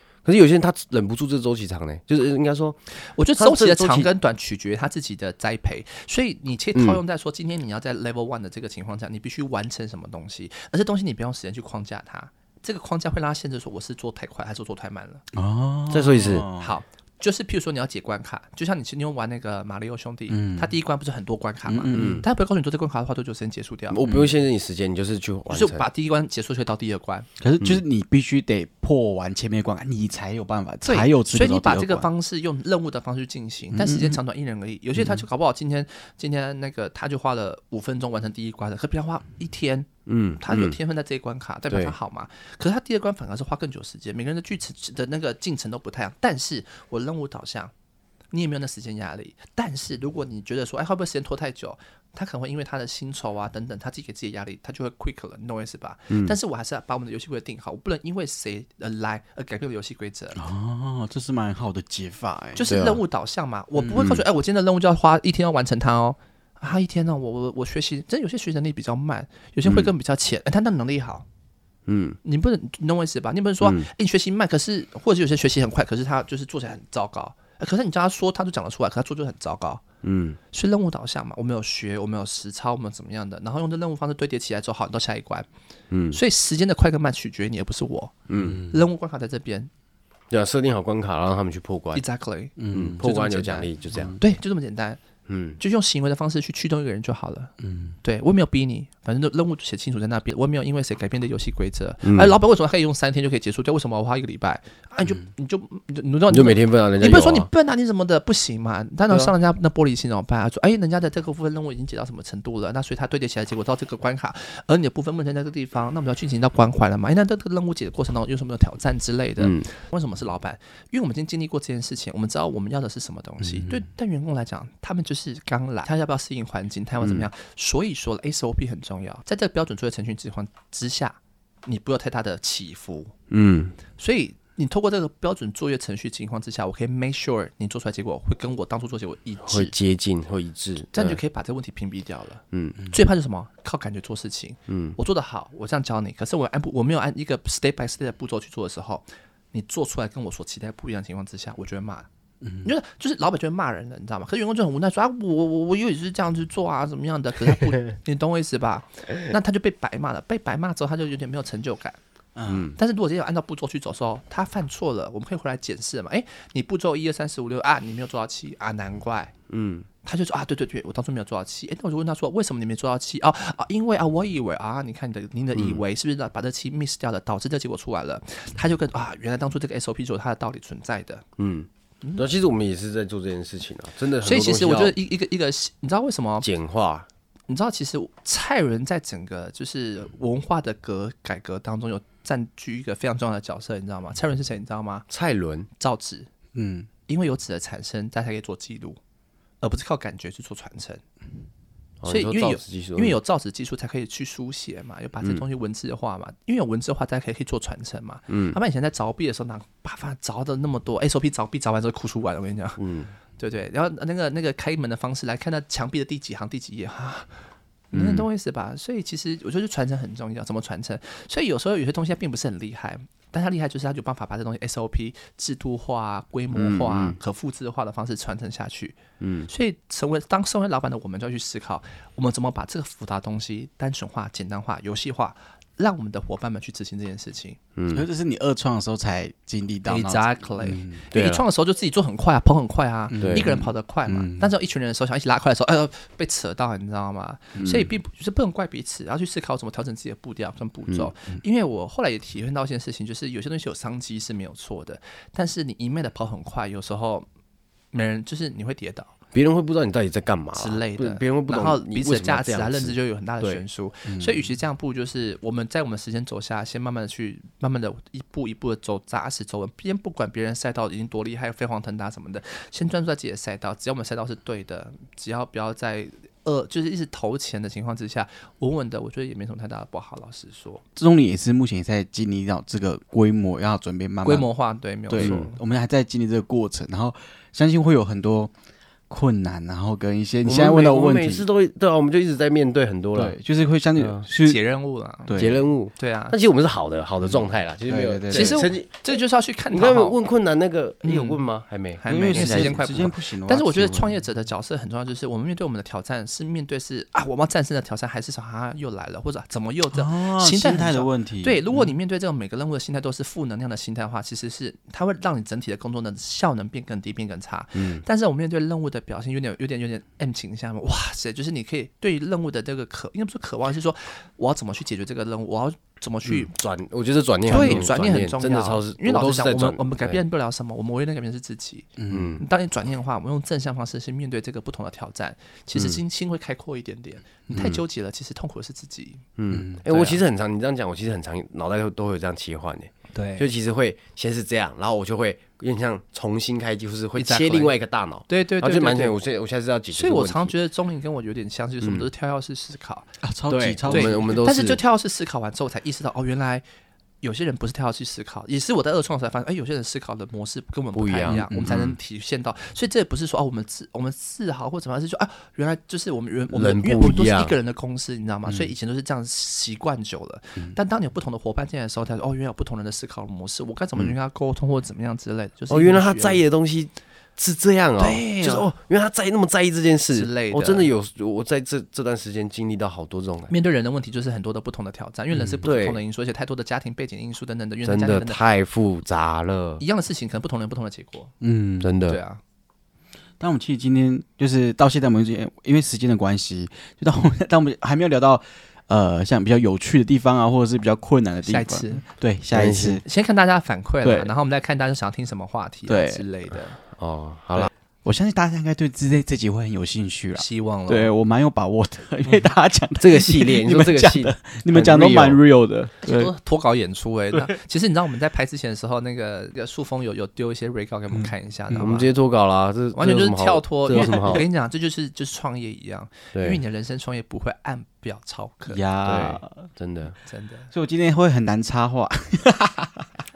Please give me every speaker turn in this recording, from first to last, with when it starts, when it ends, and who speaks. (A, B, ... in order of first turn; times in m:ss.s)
0:00.2-0:02.8 A
0:03.0-0:15.2 B
0:03.4-0:04.1 A
0:06.8-0:07.0 A
0:15.3-0:16.7 C
0:15.9-0:16.5 A
0:16.6-0:24.0 B
0:20.3-0:20.8 C
0:21.7-0:22.2 C
0:21.9-0:22.3 A
0:23.9-0:25.9 A
0:24.0-0:24.4 C
0:25.5-0:27.3 B
0:27.4-0:32.1 C
0:30.8-0:39.9 B
0:33.7-0:34.2 C
0:40.1-0:40.8 A
0:40.4-0:47.7 B
0:41.7-0:42.0 A
0:48.3-1:00.4 B
0:56.1-0:56.4 A
1:00.4-1:02.7 C
1:02.6-1:11.2 B
1:02.7-1:03.0 A
1:03.8-1:04.0 C
1:03.9-1:04.2 A
1:09.6-1:09.9 A
1:11.9-1:12.2 A
1:12.2-1:19.8 B
1:13.6-1:13.9 A
1:20.0-1:20.4 A
1:20.5-1:25.5 B
1:25.9-1:26.2 A
1:26.1-1:28.2 B
1:28.3-1:28.6 A
1:28.5-1:28.8 C
1:28.7-1:29.7 B
1:30.3-1:32.0 A
1:32.0-1:35.0 B
1:32.6-1:33.0 C
1:32.7-1:34.2 A
1:35.3-1:35.6 A
1:35.6-2:13.1 B
1:37.6-1:38.0 C
1:42.0-1:42.4 A
1:46.3-1:47.5 A
1:59.4-1:59.7 A
2:03.4-2:03.9 C
2:07.0-2:07.3 A
2:13.3-2:13.8 A
2:14.0-2:19.7 B
2:19.5-2:21.2 A
2:20.9-2:32.1 B
2:22.5-2:22.8 A
2:24.7-2:25.0 A
2:32.4-2:32.7 C
2:32.6-2:42.0 B
2:42.4-2:42.7 C
2:42.5-2:42.8 A
2:42.8-2:49.4 B
2:49.5-2:49.9 A
2:50.0-3:01.2 B
2:55.6-2:55.8 A
3:01.4-3:05.0 A
3:04.2-3:06.5 B
3:06.4-3:07.1 A
3:07.5-3:15.1 B
3:15.1-3:15.7 A
3:15.8-3:16.3 B
3:16.6-3:16.9 C
3:17.1-3:19.0 B
3:19.6-3:21.0 B
3:22.0-3:23.2 A
3:22.1-3:32.8 B
3:28.3-3:28.6 A
3:32.8-3:33.1 A
3:33.4-3:37.4 B
3:37.9-3:57.6 B
3:37.9-3:38.3 A
3:46.5-3:47.2 A
3:49.2-3:49.5 A
3:57.8-3:58.0 A
3:57.9-4:01.0 C
3:59.9-4:17.3 B
4:01.1-4:01.4 A
4:03.1-4:04.5 C
4:03.2-4:03.5 A
4:07.6-4:07.8 A
4:17.9-4:19.1 B
4:19.3-4:23.6 A
4:20.5-4:40.8 B
4:24.1-4:24.5 C
4:41.0-4:44.5 C
4:44.2-4:45.6 B
4:45.1-4:48.5 C
4:45.2-4:45.5 A
4:49.1-4:51.4 C
4:50.5-4:53.4 A
4:53.1-4:54.6 C
4:54.0-4:54.3 A
4:54.4-4:55.4 B
4:55.2-4:55.7 C
4:55.4-4:59.0 A
4:56.0-4:56.4 B
4:57.2-4:58.7 C
4:58.3-5:00.2 B
4:59.7-5:03.0 A
5:01.0-5:01.4 B
5:02.0-5:26.5 B
5:02.1-5:04.2 C
5:09.9-5:11.6 C
5:17.8-5:18.0 A
5:26.3-5:30.2 A
5:27.5-5:39.2 B
5:27.5-5:27.9 C
5:32.0-5:32.4 C
5:32.1-5:32.4 A
5:35.7-5:36.0 A
5:37.5-5:37.8 C
5:39.4-5:50.5 A
5:39.5-5:39.8 C
5:39.9-5:40.2 B
5:43.1-5:43.5 B
5:47.2-5:49.2 B
5:49.9-5:53.1 B
5:51.8-5:52.1 A
5:53.2-5:54.4 C
5:53.5-5:54.8 A
5:53.9-5:56.6 B
5:57.2-6:16.4 B
6:00.9-6:01.9 A
6:01.3-6:02.0 C
6:06.5-6:07.5 A
6:15.7-6:23.5 A
6:18.0-6:18.7 B
6:20.1-6:20.9 B
6:23.5-6:28.4 B
6:25.3-6:25.6 C
6:25.6-6:26.0 A
6:27.8-6:29.8 A
6:29.8-6:31.3 B
6:31.4-6:31.9 C
6:31.8-6:32.2 A
6:32.1-6:32.4 B
6:33.4-6:43.0 C
6:41.5-6:42.0 B
6:42.5-6:43.0 A
6:43.0-6:46.8 B
6:44.0-6:44.3 C
6:45.9-6:46.2 C
6:47.0-6:47.7 A
6:47.6-6:56.3 C
6:50.4-6:51.1 B
6:53.0-6:55.4 A
6:56.0-7:02.2 B
7:01.1-7:02.0 C
7:01.8-7:04.4 A
7:02.9-7:08.8 B
7:03.9-7:04.5 C
7:06.3-7:06.6 A
7:08.7-7:09.7 C
7:09.0-7:10.2 A
7:10.2-7:10.7 B
7:10.7-7:13.0 C